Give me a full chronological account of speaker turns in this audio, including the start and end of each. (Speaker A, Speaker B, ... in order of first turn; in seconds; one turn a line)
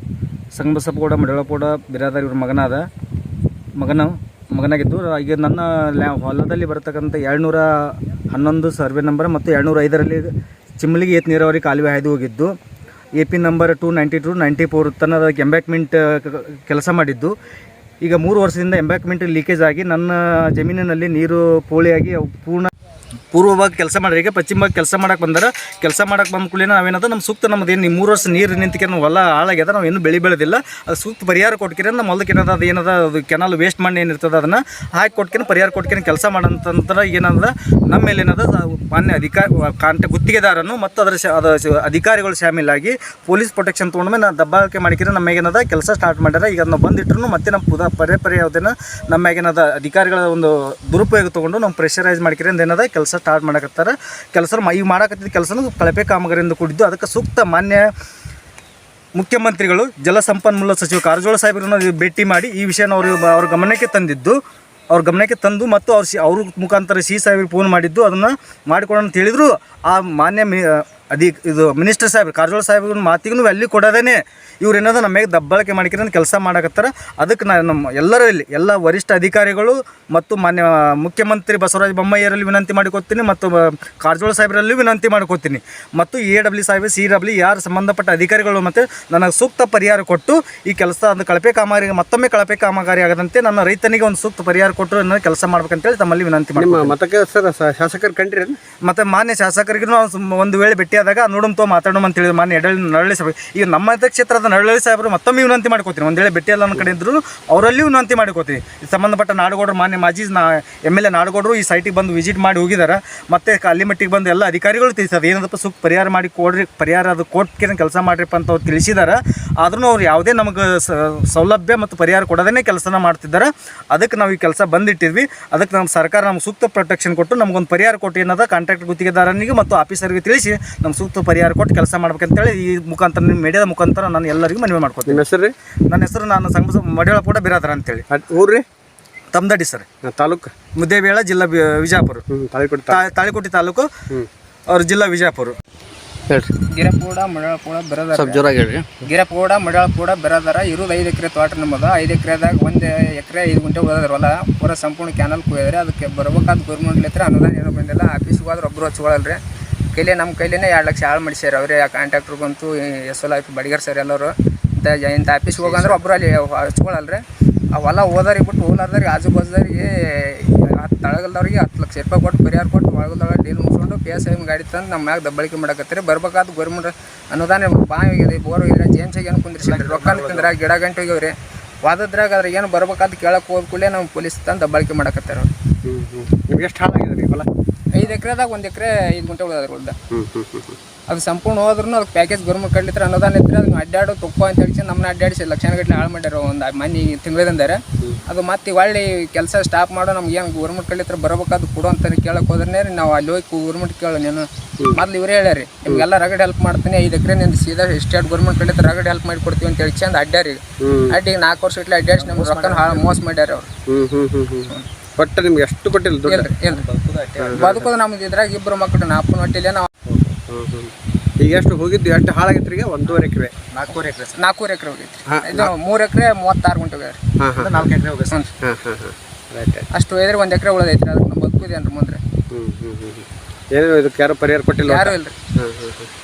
Speaker A: 0.5-2.9
Speaker A: 3.8-12.5
Speaker A: 13.2-17.3
Speaker A: 18.0-22.7
Speaker A: 23.3-57.9
Speaker A: 59.2-96.9
Speaker B: 96.6-98.6
Speaker A: 98.8-135.2
Speaker B: 135.1-135.5
Speaker A: 135.9-138.1
Speaker B: 138.1-138.6
Speaker A: 139.3-139.9
Speaker B: 140.0-140.5
Speaker A: 140.8-142.2
Speaker B: 142.3-143.0
Speaker A: 142.9-143.9
Speaker A: 144.7-145.6
Speaker C: 146.7-148.4
Speaker B: 148.1-149.0
Speaker C: 149.0-159.4
Speaker C: 159.9-167.2
Speaker C: 167.7-185.5
Speaker A: 179.6-180.5
Speaker B: 185.8-187.5
Speaker C: 187.9-189.9
Speaker B: 190.1-190.8
Speaker C: 191.1-213.7
Speaker B: 210.8-211.2
Speaker A: 212.2-213.1
Speaker B: 213.9-216.5
Speaker C: 216.2-216.8
Speaker A: 216.6-217.9
Speaker B: 217.4-217.7
Speaker C: 217.5-219.9
Speaker B: 220.1-223.5
Speaker A: 223.1-224.4
Speaker C: 224.3-227.2
Speaker B: 225.3-225.7
Speaker B: 227.4-227.9
Speaker A: 227.6-228.4
Speaker B: 228.6-229.9
Speaker C: 229.9-232.2
Speaker B: 232.5-236.1
Speaker C: 234.8-235.3